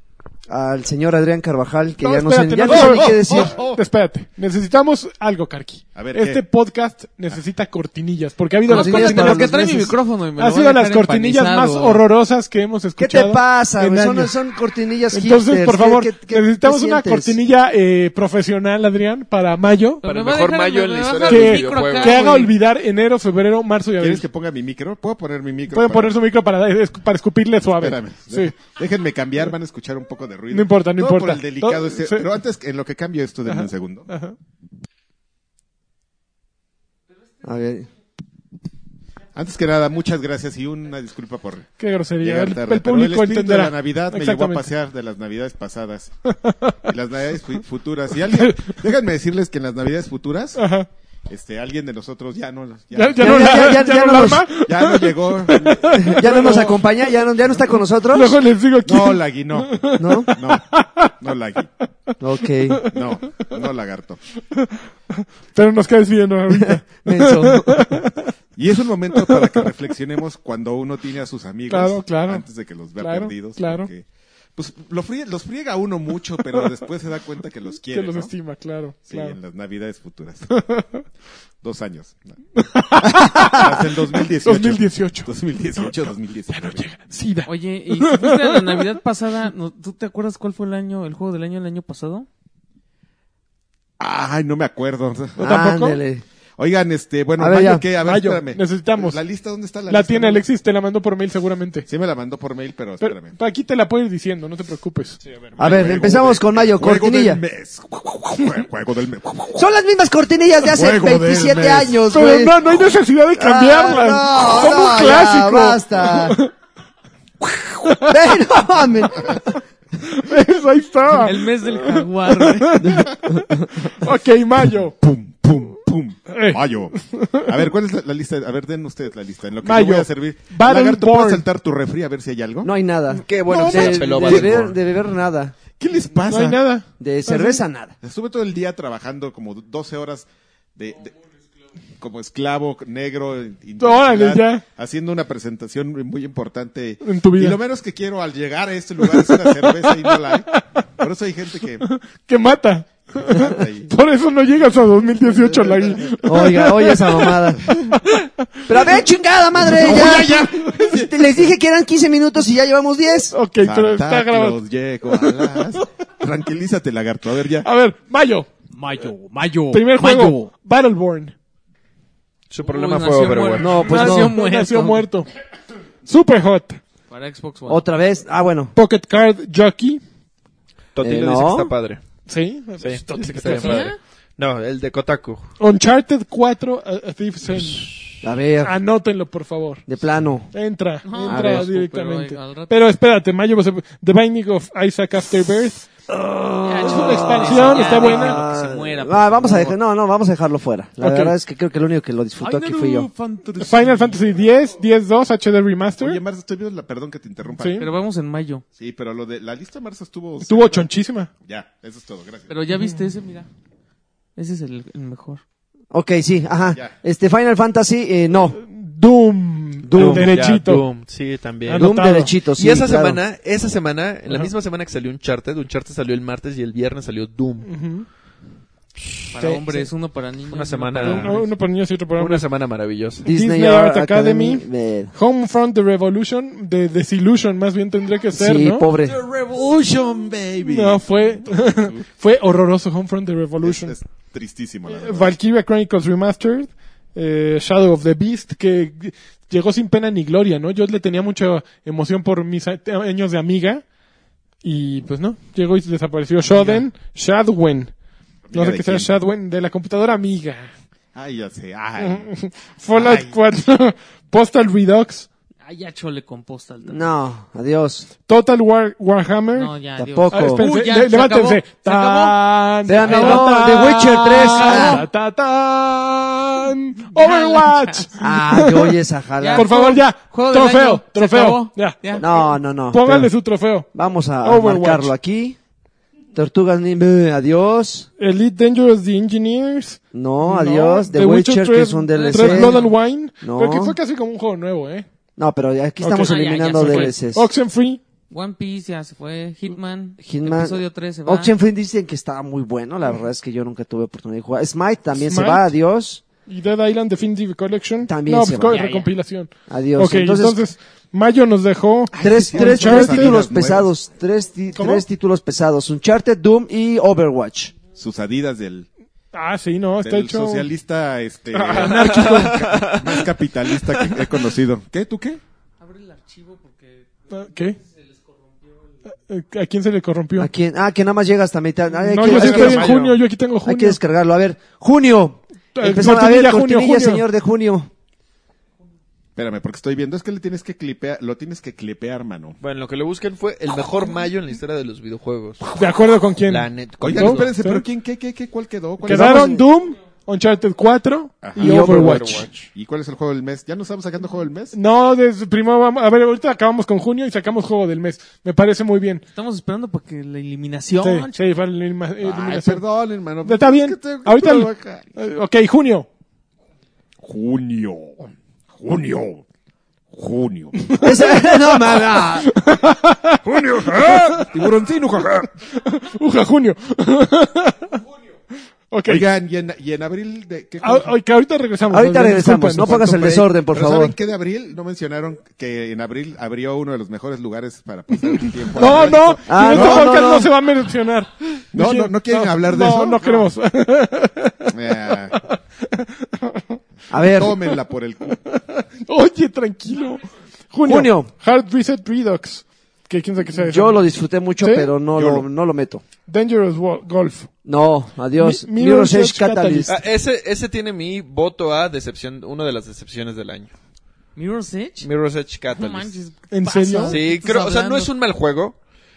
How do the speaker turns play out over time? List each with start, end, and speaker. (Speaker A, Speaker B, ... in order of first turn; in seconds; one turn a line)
Speaker A: 0.5-3.6
Speaker B: 2.0-9.6
Speaker C: 2.8-3.8
Speaker C: 5.9-6.4
Speaker D: 8.7-12.0
Speaker A: 8.7-9.9
Speaker B: 10.4-14.3
Speaker A: 13.0-17.4
Speaker B: 15.1-20.0
Speaker D: 20.0-22.5
Speaker E: 20.0-22.3
Speaker B: 21.3-24.3
Speaker C: 24.0-26.2
Speaker B: 25.7-28.6
Speaker C: 27.8-34.1
Speaker B: 30.5-32.3
Speaker B: 33.5-34.4
Speaker A: 37.4-37.9
Speaker C: 39.4-46.1
Speaker B: 41.8-44.7
Speaker B: 46.3-46.8
Speaker C: 46.9-50.7
Speaker B: 48.3-48.7
Speaker B: 50.6-50.9
Speaker C: 51.3-54.0
Speaker B: 52.9-56.9
Speaker A: 53.2-54.5
Speaker C: 54.5-56.4
Speaker A: 56.0-58.4
Speaker B: 58.1-61.1
Speaker C: 58.9-61.7
Speaker A: 60.0-60.3
Speaker A: 62.2-62.8
Speaker B: 62.6-63.4
Speaker C: 62.9-64.2
Speaker B: 64.5-68.3
Speaker A: 66.5-67.8
Speaker C: 68.6-78.3
Speaker B: 69.1-69.7
Speaker B: 71.7-72.4
Speaker B: 73.0-73.9
Speaker B: 77.9-79.4
Speaker C: 79.1-80.5
Speaker B: 80.5-81.0
Speaker C: 81.6-82.3
Speaker B: 82.6-85.9
Speaker A: 83.1-83.7
Speaker C: 83.5-86.9
Speaker B: 86.5-89.0
Speaker D: 87.5-92.3
Speaker C: 94.0-95.4
Speaker A: 95.4-96.2
Speaker B: 95.4-96.0
Speaker C: 96.6-100.4
Speaker A: 97.4-97.8
Speaker B: 98.0-99.2
Speaker B: 99.9-101.8
Speaker C: 101.9-103.3
Speaker B: 103.0-105.2
Speaker C: 105.5-109.6
Speaker A: 105.6-107.4
Speaker A: 109.5-116.4
Speaker C: 110.7-112.0
Speaker B: 112.1-116.5
Speaker B: 117.4-118.4
Speaker A: 118.1-119.4
Speaker B: 120.0-125.0
Speaker D: 121.1-122.9
Speaker A: 122.8-123.9
Speaker C: 125.0-132.7
Speaker B: 126.3-127.5
Speaker B: 129.6-131.4
Speaker A: 132.6-135.6
Speaker E: 133.2-134.8
Speaker C: 133.4-134.7
Speaker C: 135.7-136.7
Speaker B: 136.3-137.6
Speaker A: 137.0-137.9
Speaker C: 138.0-141.2
Speaker C: 142.0-151.8
Speaker B: 143.8-144.6
Speaker B: 147.0-147.6
Speaker B: 149.0-150.7
Speaker B: 151.8-159.0
Speaker C: 153.2-153.9
Speaker C: 155.4-156.2
Speaker A: 156.2-157.8
Speaker A: 158.7-163.3
Speaker B: 159.6-161.1
Speaker B: 163.3-165.8
Speaker C: 163.6-167.7
Speaker B: 167.6-168.5
Speaker D: 168.8-170.5
Speaker B: 169.7-171.3
Speaker E: 172.5-173.8
Speaker D: 172.6-175.1
Speaker A: 173.6-174.4
Speaker B: 173.8-175.3
Speaker B: 176.1-176.8
Speaker D: 177.1-177.8
Speaker A: 177.7-178.7
Speaker B: 178.7-180.0
Speaker E: 180.9-182.0
Speaker A: 181.0-181.7
Speaker B: 182.3-183.9
Speaker E: 182.8-185.5
Speaker D: 183.4-184.0
Speaker B: 185.6-187.9
Speaker E: 187.6-188.0
Speaker A: 188.2-188.7
Speaker B: 188.6-189.8
Speaker A: 189.9-190.5
Speaker B: 190.5-195.9
Speaker D: 191.0-192.7
Speaker A: 191.2-191.7
Speaker A: 196.1-203.1
Speaker D: 196.7-199.7
Speaker B: 196.8-198.4
Speaker B: 201.0-201.3
Speaker D: 202.4-204.3
Speaker B: 203.6-206.2
Speaker C: 206.0-207.9
Speaker B: 207.6-207.9
Speaker D: 207.8-208.6
Speaker C: 208.8-210.9
Speaker B: 210.4-211.3
Speaker C: 211.4-212.5
Speaker D: 212.5-213.5
Speaker B: 212.7-213.1
Speaker D: 214.3-215.4
Speaker A: 215.9-218.6
Speaker C: 216.7-216.9
Speaker B: 218.5-220.8
Speaker A: 219.8-220.3
Speaker E: 219.9-221.9
Speaker B: 221.7-222.3
Speaker A: 221.8-223.2
Speaker E: 222.6-227.7
Speaker B: 227.6-228.1
Speaker E: 229.0-229.3
Speaker D: 229.3-231.5
Speaker B: 229.4-229.9
Speaker E: 230.5-231.4
Speaker B: 231.0-232.4
Speaker E: 232.2-233.2
Speaker A: 233.2-235.1
Speaker B: 233.2-238.8
Speaker A: 238.3-239.2
Speaker C: 239.1-242.0
Speaker B: 240.7-243.9
Speaker C: 243.6-245.3
Speaker B: 244.9-253.8
Speaker B: 254.6-257.9
Speaker C: 258.5-259.1
Speaker B: 258.5-260.7
Speaker C: 261.1-262.3
Speaker B: 262.0-265.3
Speaker C: 262.9-263.3
Speaker D: 265.6-267.1
Speaker A: 266.9-268.1
Speaker B: 268.3-269.7
Speaker D: 269.5-272.4
Speaker A: 270.0-270.7
Speaker B: 270.3-278.9
Speaker A: 272.9-275.1
Speaker D: 272.9-275.1
Speaker D: 277.1-278.4
Speaker A: 278.2-279.7
Speaker D: 279.4-282.3
Speaker B: 279.5-283.9
Speaker A: 282.1-283.3
Speaker A: 283.9-285.6
Speaker B: 284.4-285.1
Speaker A: 286.3-288.1
Speaker B: 288.2-295.1
Speaker A: 290.1-292.8
Speaker D: 292.1-292.9
Speaker A: 293.4-293.9
Speaker A: 295.4-297.5
Speaker B: 296.0-298.0
Speaker D: 296.1-297.1
Speaker D: 298.3-301.5
Speaker A: 300.2-306.2
Speaker B: 305.3-305.7
Speaker B: 306.5-313.4
Speaker A: 308.1-308.8
Speaker D: 308.7-309.1
Speaker A: 309.7-310.6
Speaker C: 312.1-313.9
Speaker A: 312.2-317.7
Speaker B: 314.8-315.1
Speaker C: 317.9-318.9
Speaker B: 319.3-320.7
Speaker C: 320.0-325.4
Speaker B: 321.5-322.9
Speaker E: 321.8-323.2
Speaker D: 325.8-328.9
Speaker B: 327.3-327.8
Speaker B: 329.3-330.5
Speaker A: 330.4-332.9
Speaker B: 332.1-334.0
Speaker E: 332.2-333.2
Speaker A: 333.6-337.9
Speaker B: 335.7-337.2
Speaker C: 339.4-342.6
Speaker E: 342.6-345.7
Speaker B: 345.7-347.8
Speaker E: 346.4-347.5
Speaker C: 347.0-349.6
Speaker B: 349.0-352.7
Speaker A: 349.0-349.6
Speaker C: 351.4-352.1
Speaker E: 351.6-352.5
Speaker A: 351.6-352.3
Speaker C: 352.7-354.8
Speaker B: 354.7-359.2
Speaker D: 359.3-361.4
Speaker B: 361.0-362.8
Speaker C: 362.2-365.1
Speaker B: 363.4-366.1
Speaker C: 367.2-369.4
Speaker C: 370.1-371.1
Speaker B: 370.8-374.5
Speaker A: 371.0-372.5
Speaker C: 373.4-375.5
Speaker B: 375.7-378.0
Speaker B: 378.9-379.3
Speaker C: 379.1-381.1
Speaker B: 380.8-383.5
Speaker A: 381.9-384.1
Speaker C: 383.1-390.4
Speaker B: 388.3-396.8
Speaker A: 389.4-390.5
Speaker C: 391.7-393.5
Speaker C: 394.7-395.4
Speaker A: 397.1-397.6
Speaker C: 397.1-398.4
Speaker B: 398.3-404.0
Speaker A: 400.8-401.3
Speaker A: 403.4-406.0
Speaker B: 404.6-404.9
Speaker C: 405.1-405.5
Speaker B: 406.3-407.5
Speaker A: 407.6-409.9
Speaker B: 408.4-410.0
Speaker E: 409.9-413.7
Speaker D: 414.4-415.1
Speaker E: 415.0-416.1
Speaker D: 415.7-418.1
Speaker B: 416.5-417.2
Speaker E: 417.1-418.8